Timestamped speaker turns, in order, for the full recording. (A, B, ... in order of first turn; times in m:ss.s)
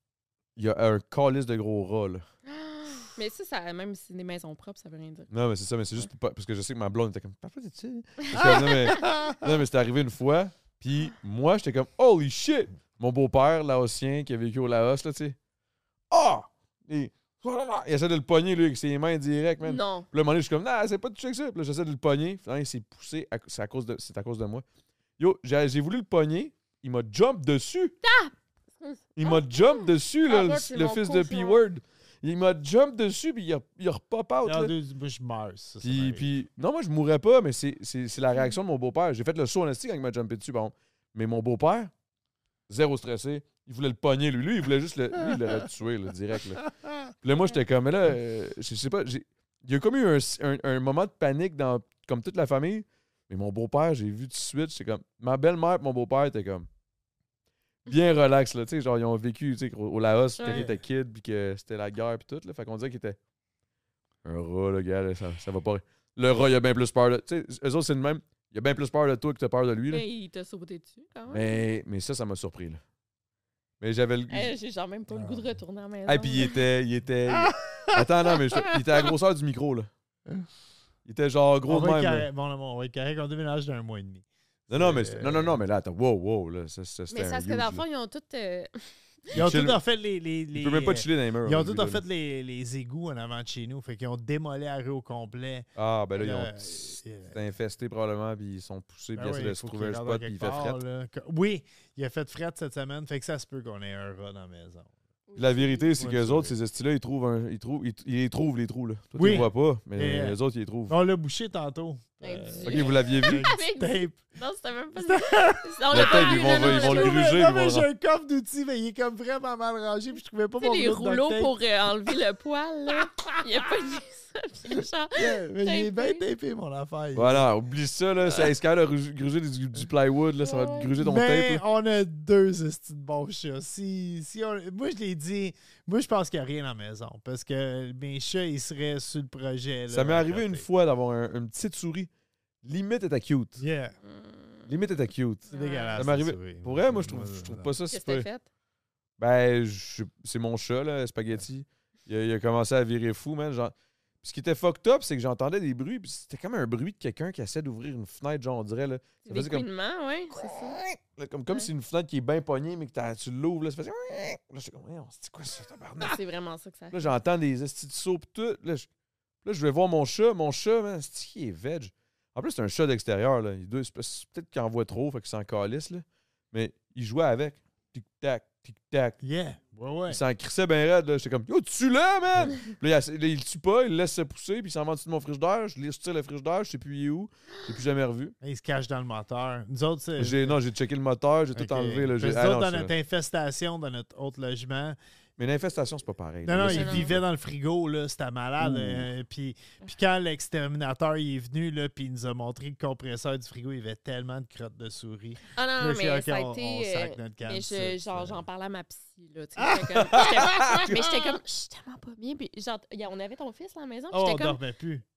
0:00.6-0:02.2 A
0:02.5-0:05.3 B
0:05.3-0:15.4 A
0:08.3-0:09.5 C
0:16.1-0:24.6 A
0:19.6-0:20.1 B
0:25.2-0:28.0 A
0:28.0-0:31.6 B
0:29.2-0:34.8 A
0:34.4-0:36.3 C
0:35.8-0:41.9 A
0:42.7-0:56.7 A
0:45.2-0:45.6 C
0:46.6-0:47.1 C
0:57.8-1:03.2 A
1:00.4-1:00.7 B
1:00.5-1:00.8 C
1:04.2-1:10.0 A
1:09.9-1:11.6 B
1:11.3-1:12.8 A
1:13.8-1:14.5 A
1:14.3-1:16.6 B
1:15.1-1:15.5 C
1:16.1-1:19.9 A
1:17.3-1:18.7 C
1:21.0-1:22.3 A
1:21.7-1:25.6 C
1:24.7-1:27.8 A
1:27.1-1:29.4 B
1:29.3-1:29.8 A
1:29.3-1:37.4 C
1:30.5-1:32.0 A
1:35.8-1:40.8 A
1:39.2-1:44.9 C
1:45.3-1:46.0 B
1:45.4-1:51.0 A
1:46.0-1:46.6 C
1:49.2-1:50.4 C
1:50.9-1:54.2 C
1:52.2-1:57.3 B
1:52.6-1:53.5 A
1:55.0-2:02.2 C
1:55.9-1:57.9 A
2:00.6-2:06.2 B
2:02.9-2:04.0 C
2:04.7-2:07.5 C
2:07.2-2:11.6 A
2:10.4-2:11.0 B
2:11.0-2:20.7 C
2:19.9-2:22.1 A
2:22.6-2:23.6 A
2:23.6-2:24.0 C
2:24.0-2:24.7 B
2:24.7-2:28.3 A
2:25.5-2:26.0 B
2:25.5-2:27.7 C
2:27.9-2:28.5 B
2:29.2-2:39.7 A
2:39.2-2:40.8 B
2:40.3-2:46.2 A
2:46.0-2:47.2 B
2:46.9-2:48.9 A
2:49.4-2:59.2 A
2:59.2-3:00.2 C
3:00.1-3:08.4 A
3:08.4-3:10.6 C
3:10.2-3:12.9 A
3:11.6-3:15.0 C
3:15.4-3:17.2 A
3:16.4-3:28.4 C
3:16.6-3:17.1 B
3:18.6-3:19.1 A
3:25.6-3:34.6 B
3:29.6-3:31.4 C
3:30.0-3:30.9 A
3:34.1-3:35.0 C